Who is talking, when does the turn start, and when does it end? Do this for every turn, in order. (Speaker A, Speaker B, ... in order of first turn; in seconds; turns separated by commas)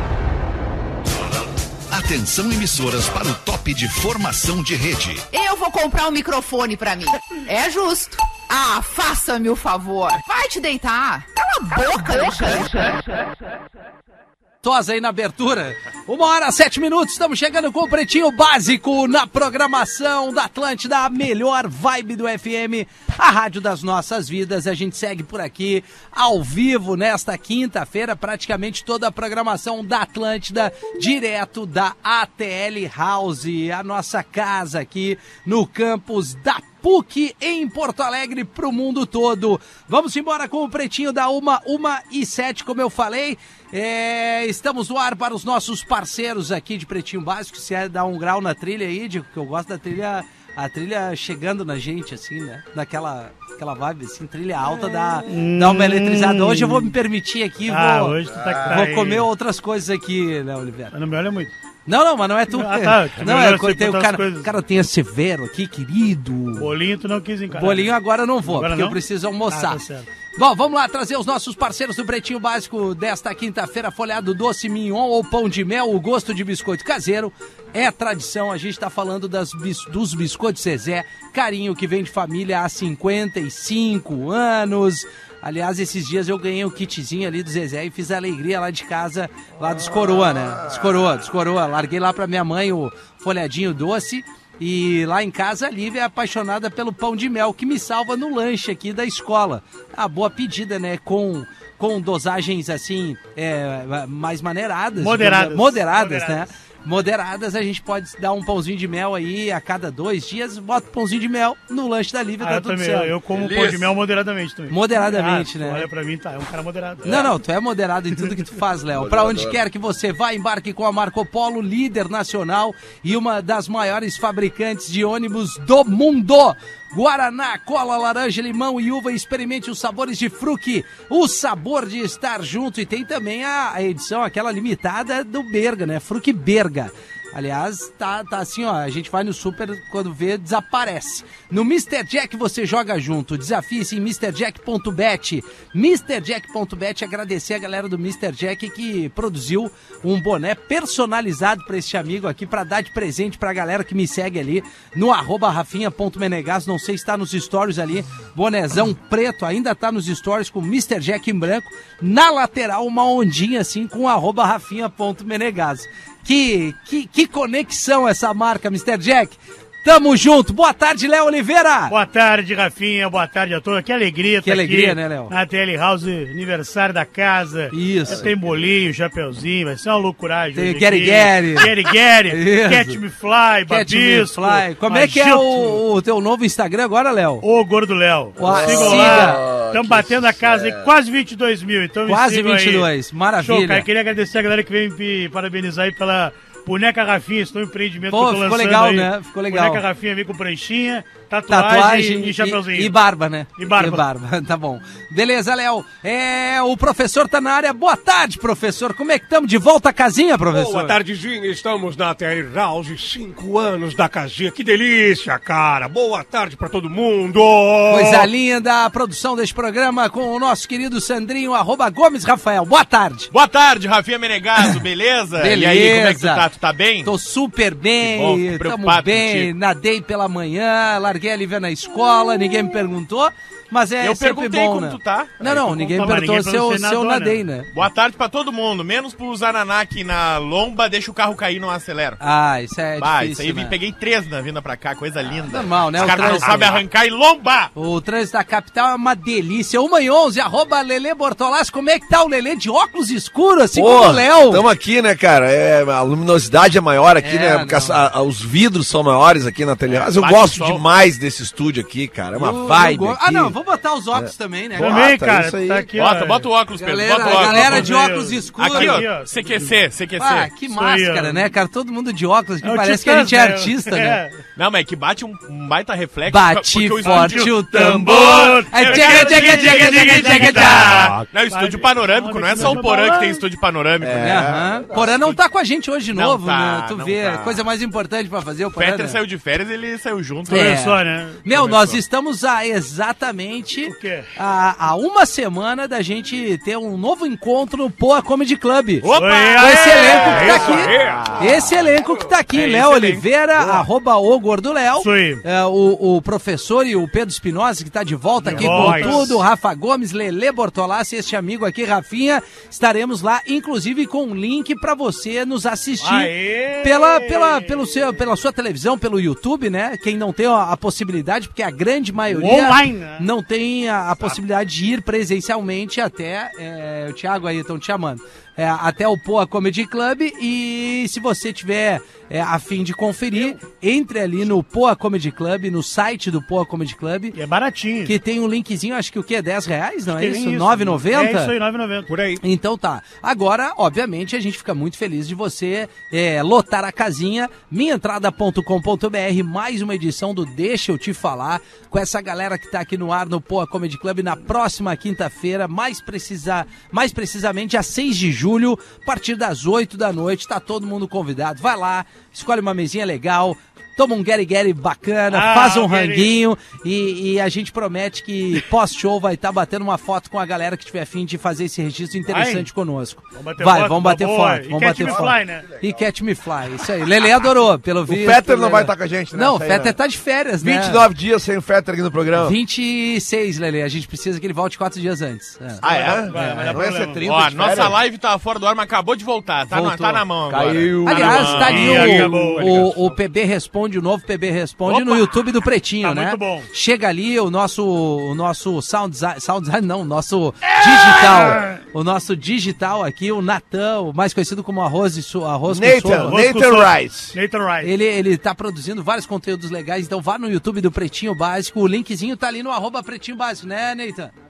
Speaker A: 1.9-5.2, Speaker B: 5.3-13.3, Speaker C: 14.6-58.2, Speaker D: 55.2-56.9, Speaker D: 57.7-59.3, Speaker E: 58.3-58.9, Speaker C: 58.7-60.9, Speaker D: 60.9-61.5, Speaker C: 61.9-66.7, Speaker D: 62.5-64.5, Speaker D: 66.6-69.0, Speaker C: 67.5-69.8, Speaker D: 69.5-70.1, Speaker C: 70.3-113.1, Speaker E: 89.6-91.2, Speaker D: 105.0-106.5, Speaker D: 112.4-117.3, Speaker E: 113.3-113.9, Speaker C: 114.7-115.9, Speaker E: 117.0-117.3, Speaker C: 117.0-171.9, Speaker E: 118.9-119.6, Speaker D: 171.9-185.8, Speaker C: 174.4-175.3, Speaker C: 177.7-178.3, Speaker C: 180.5-181.7, Speaker C: 182.3-183.0, Speaker C: 183.7-187.4, Speaker D: 187.4-202.9, Speaker C: 188.3-189.4, Speaker E: 188.4-190.9, Speaker C: 192.1-193.9, Speaker C: 198.1-199.8, Speaker C: 201.5-211.0, Speaker D: 203.6-204.0, Speaker F: 210.5-218.3, Speaker C: 217.9-223.3, Speaker G: 223.3-227.1, Speaker C: 225.4-226.4, Speaker C: 227.0-237.7, Speaker G: 228.0-229.5, Speaker G: 234.0-235.5, Speaker D: 235.4-237.4, Speaker G: 237.7-242.2, Speaker C: 242.2-243.8, Speaker G: 243.0-247.7, Speaker C: 245.5-246.8, Speaker C: 247.7-254.6, Speaker E: 253.7-263.6, Speaker C: 257.2-258.0, Speaker G: 259.9-260.8, Speaker C: 262.3-265.1, Speaker E: 264.1-265.9, Speaker D: 264.8-266.4, Speaker G: 265.9-267.9, Speaker C: 266.7-269.1, Speaker D: 267.2-269.8, Speaker G: 268.7-270.5, Speaker C: 270.2-274.2, Speaker D: 270.7-271.5, Speaker D: 272.6-274.4, Speaker G: 274.6-285.4, Speaker C: 276.2-281.1, Speaker D: 277.0-283.4, Speaker F: 280.9-281.3, Speaker E: 284.0-285.3, Speaker C: 284.2-289.2, Speaker G: 286.1-287.6, Speaker G: 288.7-290.8, Speaker D: 290.5-291.4, Speaker C: 290.5-337.4, Speaker G: 291.5-292.0, Speaker D: 293.8-294.3, Speaker G: 299.1-301.8, Speaker F: 299.1-301.3, Speaker D: 299.1-300.8, Speaker E: 301.5-302.3, Speaker G: 302.5-303.2, Speaker D: 305.0-305.4, Speaker D: 308.4-309.4, Speaker G: 308.6-309.0, Speaker D: 316.0-318.2, Speaker D: 322.3-323.3, Speaker D: 337.3-338.2, Speaker C: 338.0-341.5, Speaker D: 340.1-342.1, Speaker F: 342.1-342.4, Speaker C: 342.4-381.1, Speaker D: 365.3-366.3, Speaker D: 372.3-372.7, Speaker D: 373.3-375.6, Speaker E: 374.7-376.1, Speaker E: 378.1-380.0, Speaker E: 380.6-382.6, Speaker C: 382.4-386.8, Speaker E: 385.8-388.0, Speaker D: 385.8-387.2, Speaker G: 387.2-392.9, Speaker C: 389.7-390.2, Speaker E: 390.5-391.7, Speaker C: 391.0-406.4, Speaker D: 391.1-392.8, Speaker D: 394.9-395.4, Speaker D: 396.0-396.7, Speaker D: 400.9-401.8, Speaker E: 405.6-407.4, Speaker D: 406.2-407.9, Speaker C: 407.8-414.3